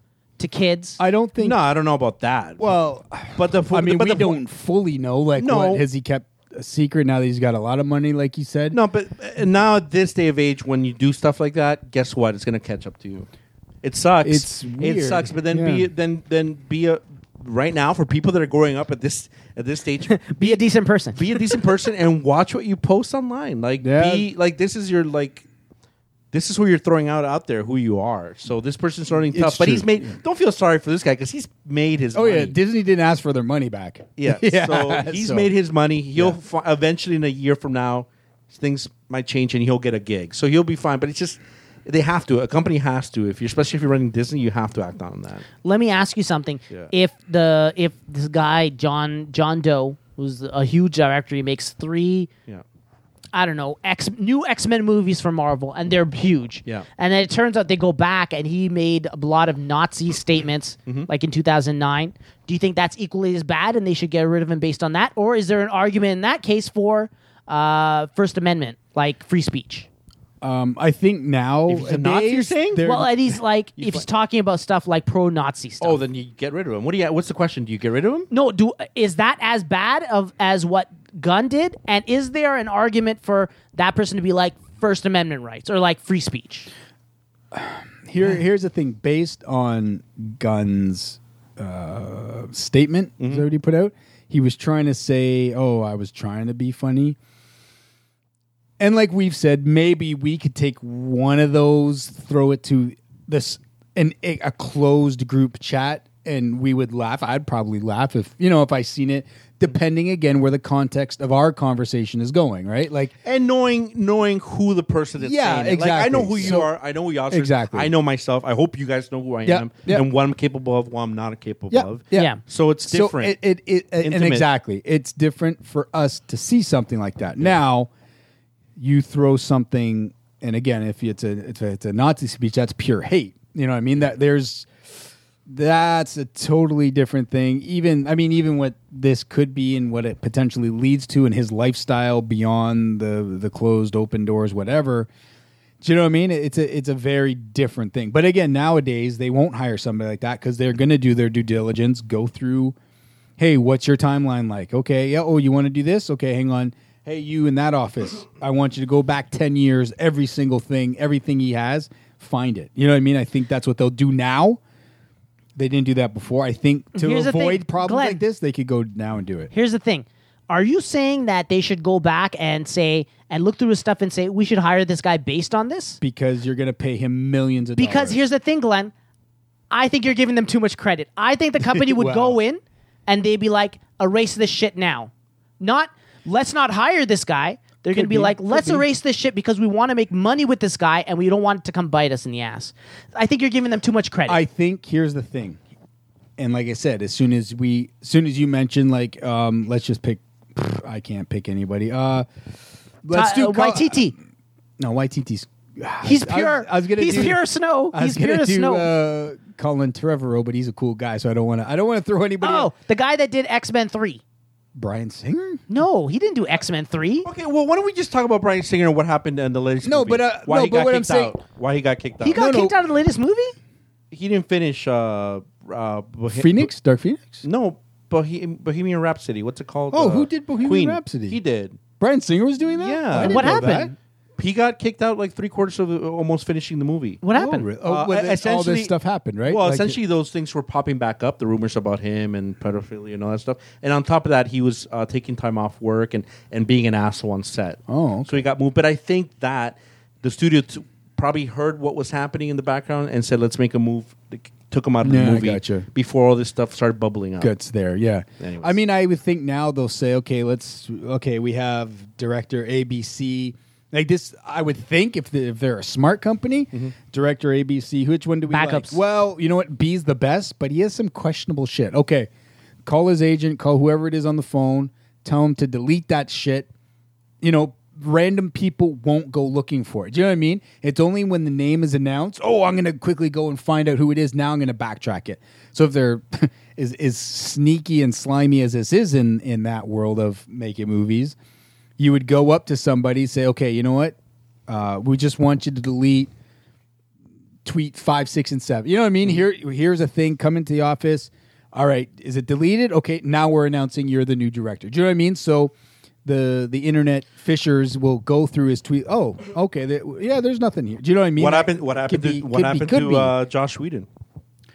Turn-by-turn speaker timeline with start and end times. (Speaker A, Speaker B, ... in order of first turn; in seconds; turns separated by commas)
Speaker A: 0.4-1.0, Speaker B: 1.0-1.6, Speaker C: 1.4-2.7, Speaker B: 2.6-8.8, Speaker C: 3.4-4.4, Speaker C: 5.4-5.8, Speaker C: 8.7-13.3, Speaker C: 13.8-20.6, Speaker B: 14.2-15.9, Speaker A: 20.1-21.6, Speaker C: 21.1-25.4, Speaker B: 23.8-24.3, Speaker C: 26.3-32.5, Speaker B: 29.1-30.1, Speaker B: 32.1-35.5, Speaker C: 34.2-45.5, Speaker A: 45.6-52.3, Speaker A: 53.3-69.9, Speaker B: 70.4-73.3, Speaker C: 71.7-72.8, Speaker A: 72.8-76.0, Speaker C: 73.8-74.0, Speaker C: 75.8-78.3, Speaker A: 78.3-86.7, Speaker B: 87.5-97.2, Speaker C: 93.2-93.4, Speaker B: 98.8-113.1, Speaker C: 113.2-123.3, Speaker B: 115.2-116.7, Speaker B: 117.3-117.9, Speaker B: 119.4-120.0, Speaker B: 121.7-127.9, Speaker C: 124.0-124.5, Speaker B: 128.8-134.7, Speaker B: 135.5-145.1, Speaker B: 145.8-152.8, Speaker B: 153.4-164.6, Speaker B: 165.6-169.5, Speaker A: 166.9-168.2, Speaker A: 169.5-176.0, Speaker B: 176.0-178.2, Speaker A: 177.8-178.9, Speaker A: 179.7-194.4, Speaker B: 181.6-182.4, Speaker B: 187.9-188.8, Speaker B: 194.3-195.6, Speaker B: 196.4-202.3, Speaker B: 203.0-204.2, Speaker A: 203.1-204.1, Speaker B: 204.8-212.7, Speaker A: 206.0-208.9, Speaker A: 212.4-214.2, Speaker B: 214.7-215.6, Speaker A: 215.7-217.3, Speaker C: 217.2-222.4, Speaker B: 219.8-221.3, Speaker A: 222.2-223.6, Speaker B: 222.3-222.7, Speaker C: 224.1-226.7, Speaker B: 226.3-227.4, Speaker C: 227.4-231.8, Speaker B: 229.9-231.4, Speaker B: 232.0-233.9, Speaker C: 232.7-233.7, Speaker A: 233.2-233.9, Speaker C: 234.4-237.2, Speaker A: 237.2-237.7, Speaker B: 237.3-240.0, Speaker C: 237.8-238.9, Speaker C: 239.4-257.5, Speaker B: 247.9-248.4, Speaker B: 255.0-255.9, Speaker B: 257.4-272.3, Speaker C: 258.4-258.7, Speaker A: 268.5-269.0, Speaker B: 272.9-276.7, Speaker B: 277.4-291.4, Speaker B: 292.0-294.2, Speaker B: 294.7-296.3, Speaker B: 297.6-305.7, Speaker B: 306.2-313.3, Speaker C: 311.4-314.1